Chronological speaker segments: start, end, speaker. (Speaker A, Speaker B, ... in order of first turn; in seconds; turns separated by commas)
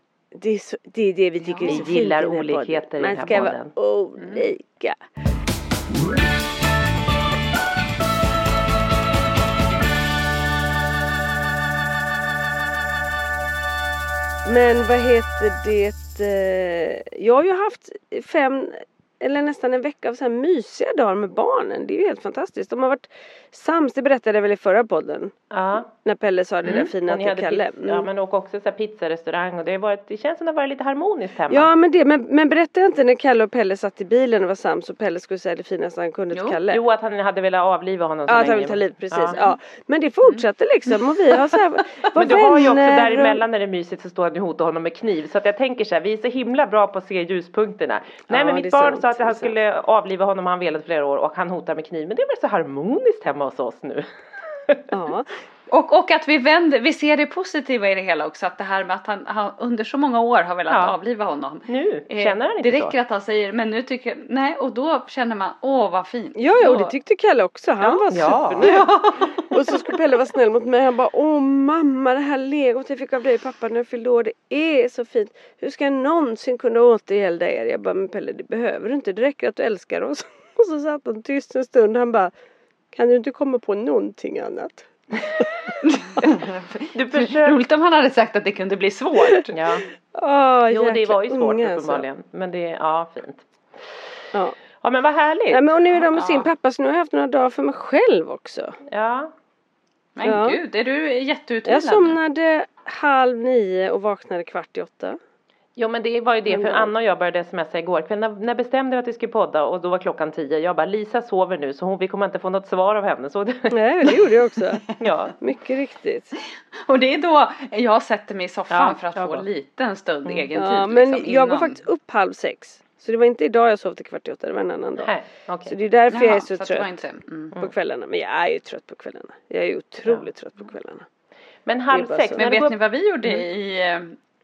Speaker A: 0.3-5.0, Speaker B: 1.4-1.9, Speaker C: 1.6-3.7, Speaker B: 4.2-4.5, Speaker A: 14.4-25.3, Speaker C: 25.5-25.9, Speaker A: 26.0-28.1, Speaker C: 26.6-31.7, Speaker A: 31.5-36.8, Speaker B: 36.3-36.6, Speaker C: 36.7-39.4, Speaker A: 38.3-43.4, Speaker C: 42.1-54.9, Speaker A: 48.3-49.5, Speaker A: 54.9-55.3, Speaker B: 55.7-66.9, Speaker C: 60.7-61.0, Speaker C: 61.6-62.9, Speaker A: 66.3-82.3, Speaker C: 68.1-68.7, Speaker B: 68.6-69.5, Speaker A: 82.9-85.5, Speaker B: 85.8-89.5, Speaker C: 86.9-87.6, Speaker C: 89.5-89.8, Speaker A: 90.1-92.0, Speaker C: 90.7-94.1, Speaker C: 94.8-95.6, Speaker A: 95.5-98.8, Speaker B: 96.1-96.5, Speaker C: 98.8-99.3, Speaker B: 100.2-102.2, Speaker A: 100.2-100.6, Speaker A: 101.7-105.2, Speaker C: 105.8-114.2, Speaker A: 106.5-106.9, Speaker A: 113.7-114.8, Speaker C: 114.9-115.3, Speaker A: 115.4-116.3, Speaker B: 116.8-121.8, Speaker C: 118.7-119.5, Speaker A: 120.5-125.1, Speaker C: 125.0-125.8, Speaker A: 125.7-126.9, Speaker B: 126.1-127.5, Speaker A: 127.5-131.1, Speaker C: 131.7-133.4, Speaker A: 131.9-132.4, Speaker B: 132.4-134.2